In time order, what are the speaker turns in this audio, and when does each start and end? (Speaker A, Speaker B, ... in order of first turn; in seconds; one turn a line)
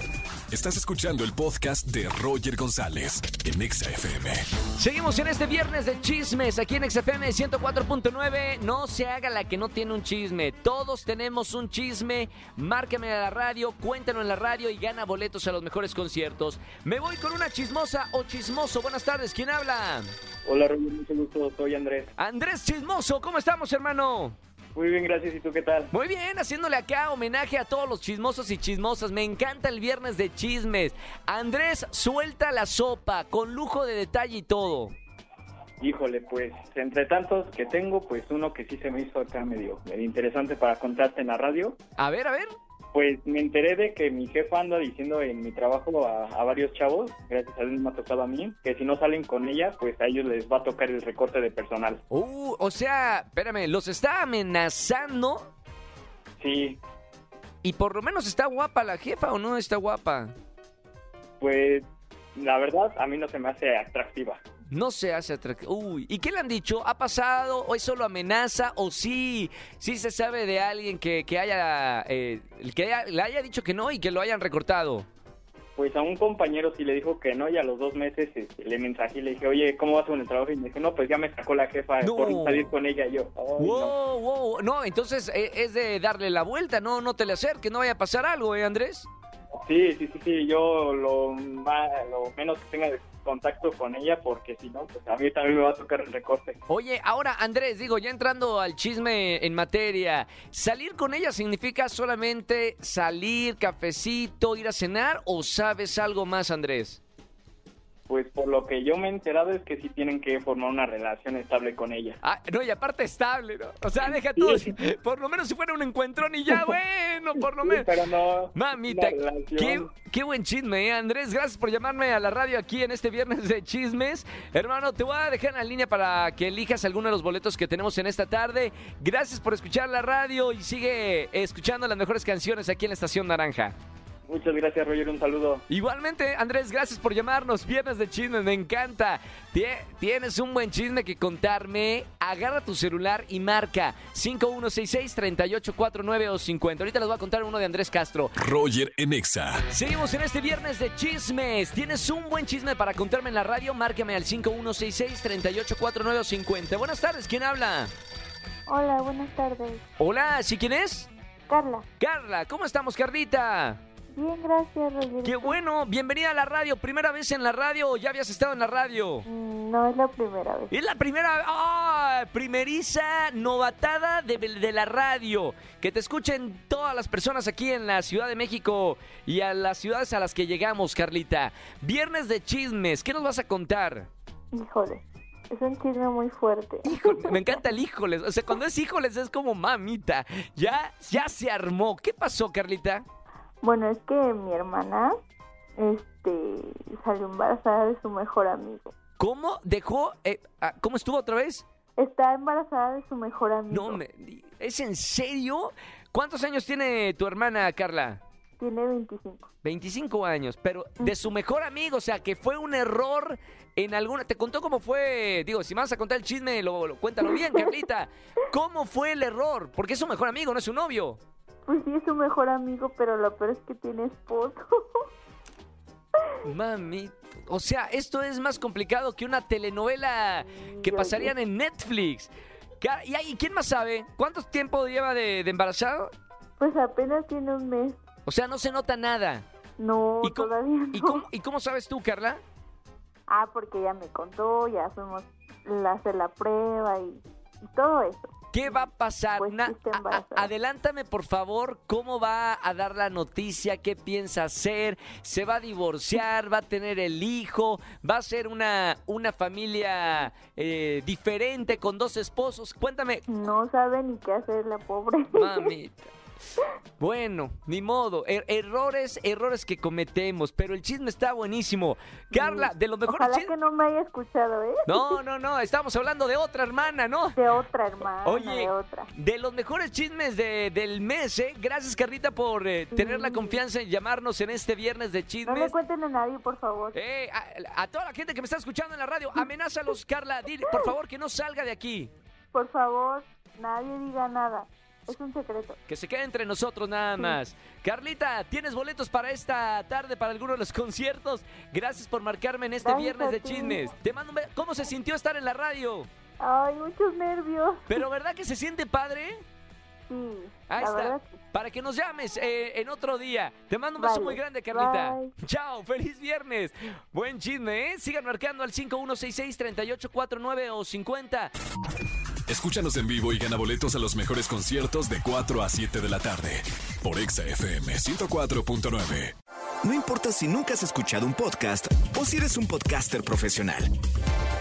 Speaker A: 0.5-4.4
Speaker B: 4.8-20.1
Speaker C: 20.4-22.1
Speaker B: 22.2-24.4
Speaker C: 24.8-25.9
Speaker B: 25.9-34.9
Speaker C: 35.8-41.8
Speaker B: 42.0-42.5
Speaker C: 42.9-52.0
Speaker B: 52.1-55.5
Speaker C: 56.4-56.8
Speaker B: 57.6-60.3
Speaker C: 61.4-61.8
Speaker C: 62.4-64.4
Speaker B: 64.7-75.1
Speaker C: 75.8-83.9
Speaker B: 82.0-82.7
Speaker B: 83.6-89.1
Speaker C: 89.6-96.6
Speaker B: 96.7-107.0
Speaker C: 108.1-112.2
Speaker B: 112.2-117.9
Speaker C: 114.0-114.7
Speaker C: 117.4-119.9
Speaker B: 118.5-133.8
Speaker C: 134.3-135.6
Speaker B: 135.7-148.3
Speaker A: 148.4-149.7
Speaker B: 149.7-157.9
Speaker D: 158.7-159.8
Speaker B: 160.0-161.1
Speaker D: 161.5-161.8
Speaker B: 162.0-163.8
Speaker D: 164.1-165.6
Speaker B: 165.2-169.3
Speaker D: 169.3-170.7
Speaker B: 170.7-184.1
Speaker D: 184.5-187.6
Speaker B: 186.9-193.1
Speaker D: 193.6-195.2
Speaker D: 195.8-198.9
Speaker B: 199.2-201.7
Speaker D: 202.0-204.0
Speaker B: 203.7-208.2
Speaker D: 208.6-209.5
Speaker B: 209.6-221.2
Speaker D: 211.0-211.2
Speaker D: 217.3-217.7
Speaker D: 221.7-225.0
Speaker B: 226.4-236.1
Speaker D: 230.6-231.3
Speaker D: 236.6-238.0
Speaker B: 238.3-239.4
Speaker D: 239.8-241.3
Speaker B: 240.2-242.4
Speaker D: 243.3-250.5
Speaker B: 248.5-263.2
Speaker D: 263.3-265.7
Speaker B: 265.3-266.1
Speaker B: 267.0-273.5
Speaker D: 272.3-275.2
Speaker B: 274.9-277.4
Speaker D: 277.4-279.1
Speaker B: 278.2-285.8
Speaker D: 282.9-283.6
Speaker D: 285.5-287.0
Speaker B: 286.9-292.1
Speaker D: 292.5-295.8
Speaker B: 295.9-306.1
Speaker D: 302.8-303.9
Speaker D: 306.4-308.0
Speaker B: 307.9-309.4
Speaker D: 310.1-311.4
Speaker B: 310.7-321.5
Speaker D: 314.0-315.3
Speaker A: 322.5-329.4
Speaker E: 329.8-333.9